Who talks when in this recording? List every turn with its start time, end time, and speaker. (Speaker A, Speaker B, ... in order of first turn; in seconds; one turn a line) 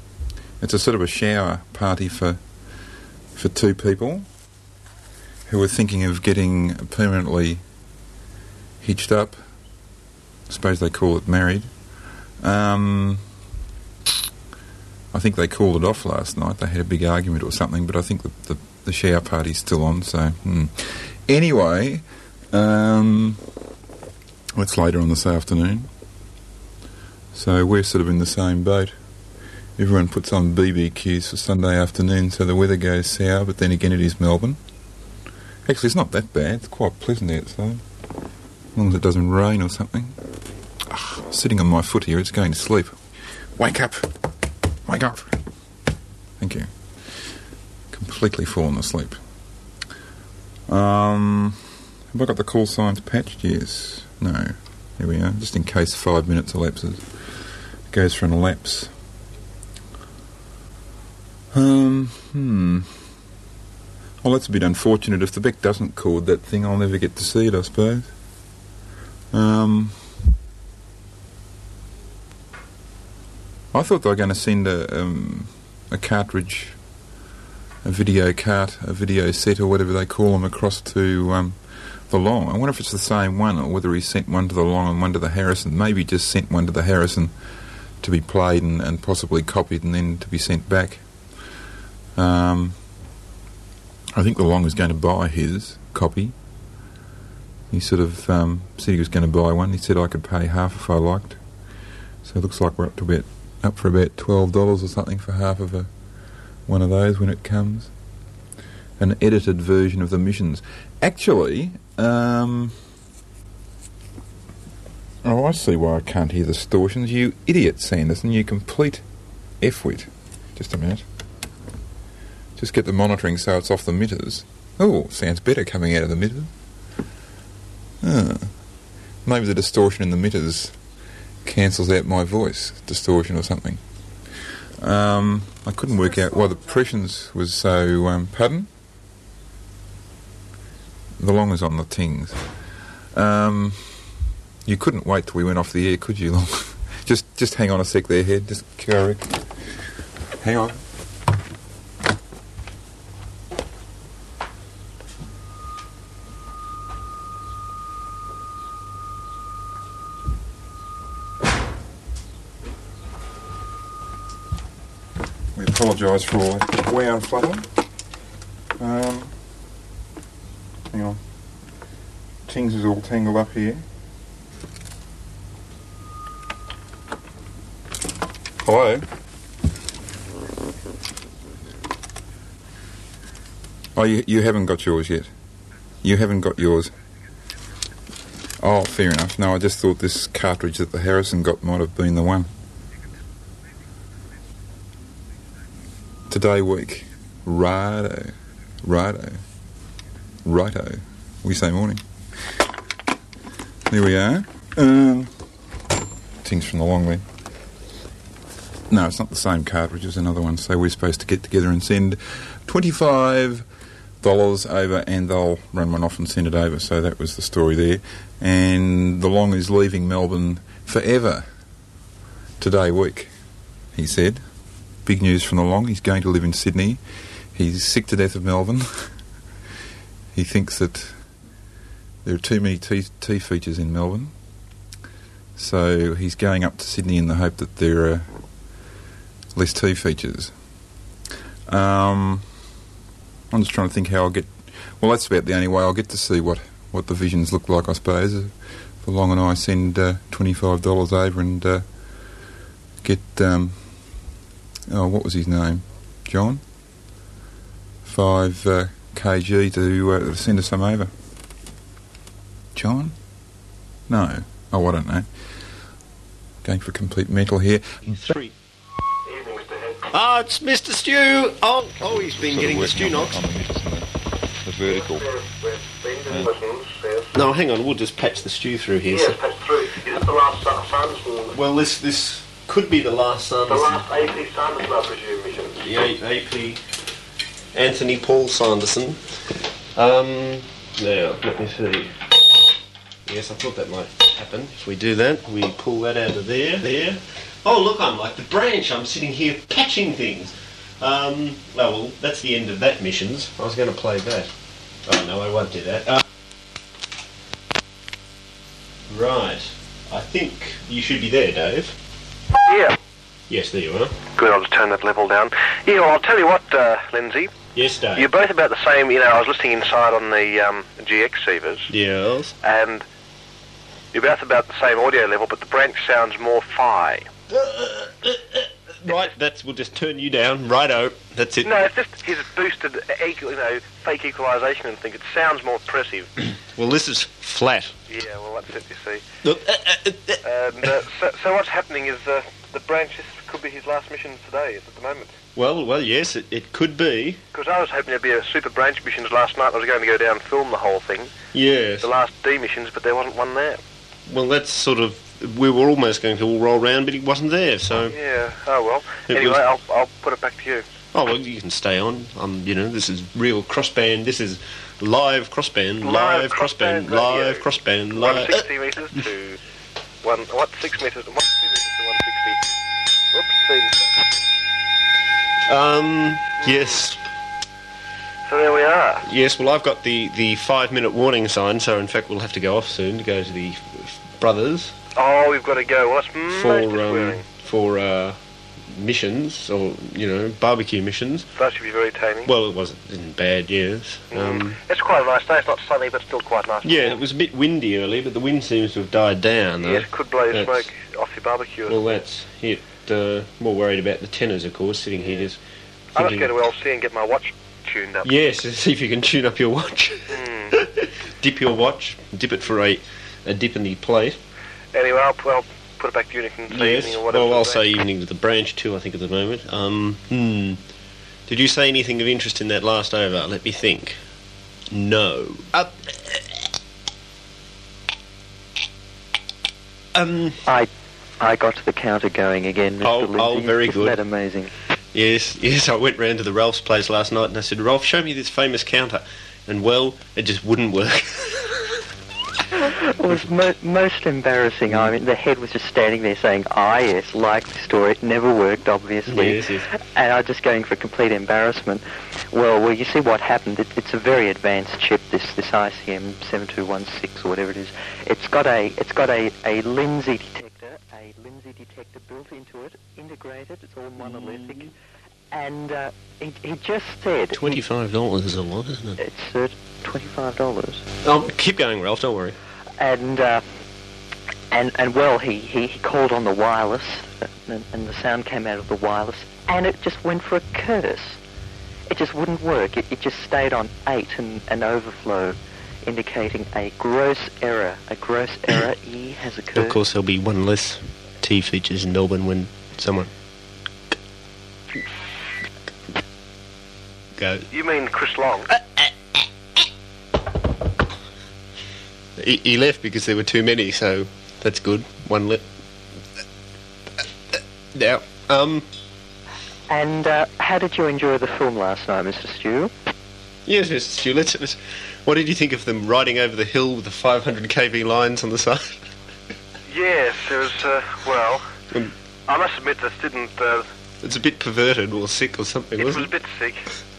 Speaker A: 0.6-2.4
Speaker A: 3.4-4.3
Speaker A: 5.5-7.6
Speaker A: 8.8-9.4
Speaker A: 10.5-11.7
Speaker A: 12.4-13.2
Speaker A: 15.1-23.4
Speaker A: 24.6-25.9
Speaker A: 27.3-28.9
Speaker A: 29.8-34.6
Speaker A: 35.6-37.8
Speaker A: 38.8-40.2
Speaker A: 40.9-43.0
Speaker A: 43.6-44.1
Speaker A: 44.9-45.4
Speaker A: 46.4-47.2
Speaker A: 47.9-49.2
Speaker A: 50.7-57.3
Speaker A: 57.9-58.9
Speaker A: 61.5-63.0
Speaker A: 64.2-68.1
Speaker A: 69.3-70.2
Speaker A: 73.7-76.8
Speaker A: 77.8-87.3
Speaker A: 88.0-91.1
Speaker A: 92.2-92.8
Speaker A: 94.2-96.3
Speaker A: 97.7-101.4
Speaker A: 102.2-105.9
Speaker A: 106.7-107.9
Speaker A: 109.0-112.8
Speaker A: 115.2-119.0
Speaker A: 119.6-121.0
Speaker A: 122.6-126.5
Speaker A: 128.0-128.6
Speaker A: 129.2-130.8
Speaker A: 131.4-133.8
Speaker A: 134.8-138.7
Speaker A: 141.2-149.8
Speaker A: 150.4-150.8
Speaker A: 165.6-167.7
Speaker A: 168.8-169.3
Speaker A: 170.9-171.2
Speaker A: 172.5-173.8
Speaker A: 178.6-179.1
Speaker A: 183.9-185.3
Speaker A: 186.0-186.9
Speaker A: 188.6-192.5
Speaker A: 196.3-199.4
Speaker A: 200.4-202.6
Speaker A: 203.9-205.4
Speaker A: 206.4-207.2
Speaker A: 208.9-213.7
Speaker A: 214.2-221.4
Speaker A: 222.6-223.3
Speaker A: 223.9-224.4
Speaker A: 225.1-227.0
Speaker A: 227.5-229.2
Speaker A: 230.3-231.2
Speaker A: 232.2-234.3
Speaker A: 235.6-238.3
Speaker A: 239.5-240.5
Speaker A: 241.7-242.5
Speaker A: 243.5-251.9
Speaker A: 253.0-254.2
Speaker A: 254.9-256.6
Speaker A: 258.0-261.1
Speaker A: 262.7-263.2
Speaker A: 264.1-265.3
Speaker A: 266.6-268.4
Speaker B: 268.1-268.5
Speaker C: 269.2-270.1
Speaker B: 270.1-273.4
Speaker A: 272.0-274.1
Speaker A: 274.6-275.3
Speaker C: 274.9-277.3
Speaker B: 277.3-279.4
Speaker C: 279.1-281.6
Speaker B: 281.5-284.1
Speaker C: 283.7-285.8
Speaker B: 285.8-286.8
Speaker B: 287.7-292.2
Speaker B: 293.3-304.5
Speaker B: 305.0-306.2
Speaker B: 309.1-312.0
Speaker C: 312.7-313.0
Speaker B: 313.5-314.2
Speaker C: 314.4-317.5
Speaker B: 317.8-318.3
Speaker C: 318.1-321.9
Speaker B: 321.9-322.6
Speaker C: 322.6-323.1
Speaker C: 324.1-327.3
Speaker B: 327.5-331.9
Speaker C: 331.6-336.3
Speaker B: 336.7-338.0
Speaker C: 338.1-339.2
Speaker B: 339.4-340.9
Speaker C: 340.4-345.4
Speaker B: 345.6-347.4
Speaker C: 347.5-351.3
Speaker B: 351.5-352.1
Speaker C: 352.0-353.8
Speaker B: 354.3-358.2
Speaker C: 358.1-360.9
Speaker B: 359.3-359.6
Speaker B: 361.1-369.2
Speaker C: 366.0-369.6
Speaker C: 370.2-372.6
Speaker C: 373.3-374.3
Speaker B: 375.7-377.2
Speaker C: 376.6-377.0
Speaker C: 378.5-379.3
Speaker B: 379.2-385.0
Speaker C: 385.2-387.4
Speaker B: 386.5-388.4
Speaker B: 388.9-391.5
Speaker C: 391.6-392.5
Speaker B: 392.4-394.8
Speaker C: 394.3-397.2
Speaker B: 396.8-400.9
Speaker C: 399.8-402.1
Speaker B: 401.9-405.6
Speaker B: 406.1-406.5
Speaker C: 406.1-408.3
Speaker B: 408.2-414.4
Speaker C: 410.3-410.8
Speaker C: 414.9-417.9
Speaker B: 416.7-420.8
Speaker B: 421.5-424.2
Speaker B: 424.9-426.6
Speaker B: 430.1-430.6
Speaker D: 431.4-434.7
Speaker B: 433.0-434.2
Speaker B: 435.1-442.0
Speaker D: 442.9-464.9
Speaker B: 444.9-445.1
Speaker B: 449.3-449.9
Speaker B: 464.2-464.9
Speaker D: 465.5-467.8
Speaker B: 467.5-469.2
Speaker D: 469.2-471.0
Speaker B: 471.2-472.6
Speaker D: 473.0-473.6
Speaker D: 474.7-481.4
Speaker D: 482.1-490.0
Speaker B: 489.8-493.3
Speaker B: 497.4-497.7
Speaker C: 497.7-498.7
Speaker B: 498.7-499.5
Speaker B: 502.4-505.6
Speaker B: 507.5-508.9
Speaker D: 509.9-512.9
Speaker B: 513.7-519.1
Speaker C: 519.9-521.8
Speaker C: 522.5-523.9
Speaker B: 524.2-526.3
Speaker C: 526.0-526.9